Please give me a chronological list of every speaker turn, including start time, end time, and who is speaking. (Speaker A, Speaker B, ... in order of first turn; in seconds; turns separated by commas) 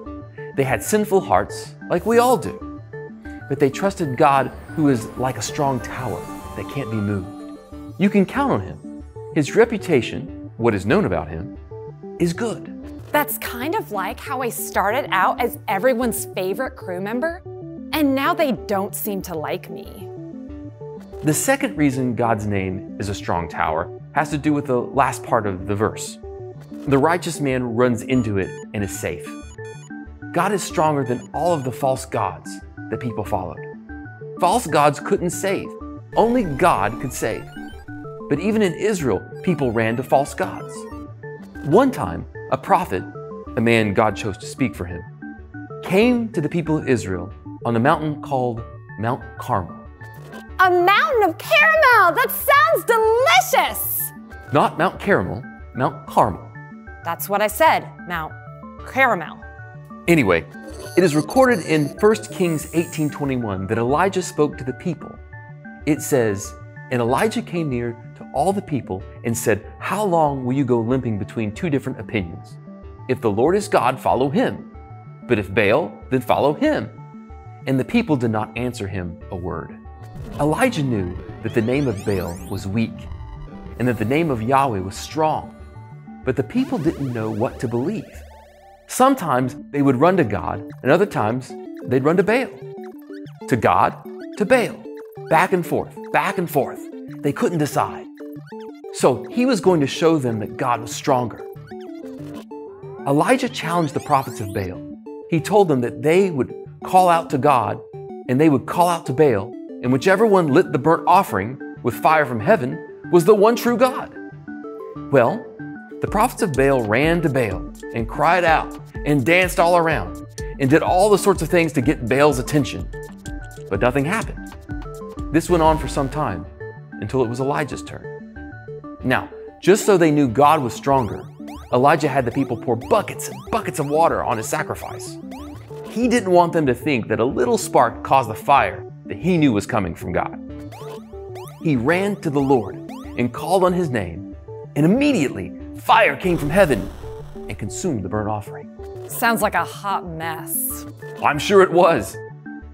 Speaker A: 0.5-2.6, Speaker A: 3.5-11.5, Speaker A: 12.2-12.7, Speaker B: 13.1-20.1, Speaker A: 21.2-26.2, Speaker A: 26.9-29.4, Speaker A: 30.3-33.7, Speaker A: 34.4-37.5, Speaker A: 38.3-40.9, Speaker A: 41.6-45.1, Speaker A: 45.8-49.9, Speaker B: 50.6-54.1, Speaker A: 54.5-56.5, Speaker B: 57.0-59.5, Speaker A: 60.1-65.2, Speaker A: 65.8-74.7, Speaker A: 75.3-76.9, Speaker A: 77.7-79.8, Speaker A: 80.4-83.1, Speaker A: 83.8-85.5, Speaker A: 86.2-88.2, Speaker A: 88.9-92.6, Speaker A: 93.5-98.1, Speaker A: 98.9-101.5, Speaker A: 103.0-114.2, Speaker A: 115.1-122.9, Speaker A: 123.7-124.5, Speaker A: 125.3-128.1, Speaker A: 129.0-135.2, Speaker A: 135.8-140.4, Speaker A: 141.6-146.9, Speaker A: 147.5-148.7, Speaker B: 149.1-150.8, Speaker A: 151.2-152.2